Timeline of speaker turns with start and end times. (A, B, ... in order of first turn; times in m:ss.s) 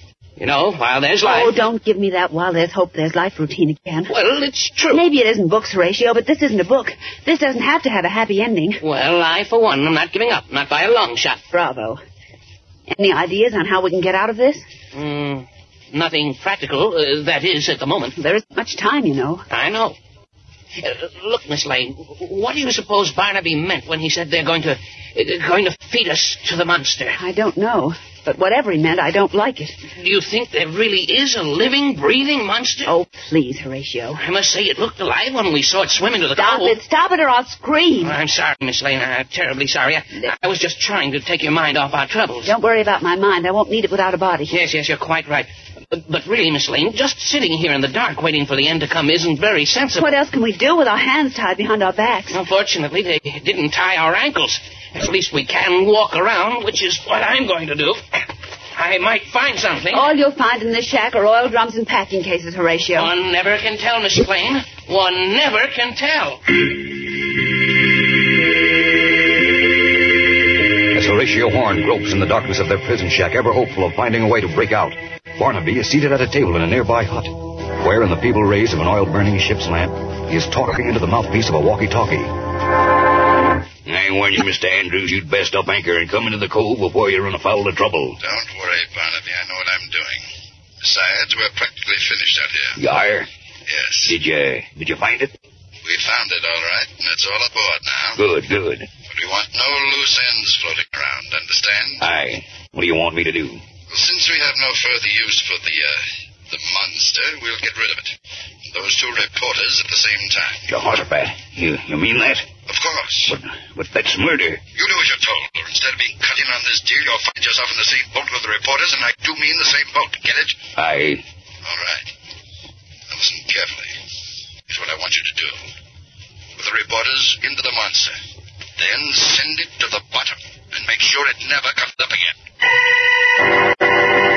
0:00.4-0:01.6 A
0:01.2-0:04.1 B
0:04.1-0:05.0 A
0:04.9-0:08.8 B
0:08.8-0:11.4 A
0:11.5-0:12.0 B
0:12.9-0:14.6 B
0:14.9-0:18.2 A
0:18.2-0:19.4 B
0:19.5-0:20.0 A
0:20.8-0:27.2 A
0:27.2-0:29.8 B
0:30.0-0:32.9 A
0:32.8-0:34.2 B
0:34.2-0:36.7 A
0:36.3-0:38.2 B
0:38.0-0:42.5 A
0:42.4-0:44.6 B
0:44.5-0:50.1 A
0:50.0-0:52.4 B
0:52.3-0:58.0 A
0:58.7-1:00.1 A
0:59.9-1:03.1 B
1:03.0-1:06.6 A
1:10.9-1:22.4 C
1:23.8-1:28.2 D
1:28.2-1:30.2 E
1:30.8-1:32.8 E
1:32.8-1:33.3 D
1:33.7-1:34.2 E
1:34.0-1:35.3 D
1:35.8-1:38.2 E
1:38.2-1:38.9 D
1:39.1-1:42.0 E
1:42.0-1:43.6 D
1:43.9-1:48.2 E
1:48.7-1:50.6 E
1:50.7-1:52.5 D
1:52.7-1:53.4 E
1:53.3-1:54.6 D
1:54.8-2:00.6 E
2:00.8-2:01.2 D
2:01.6-2:02.1 E
2:03.1-2:04.0 E
2:04.7-2:05.6 E
2:06.6-2:08.2 E
2:08.8-2:12.3 E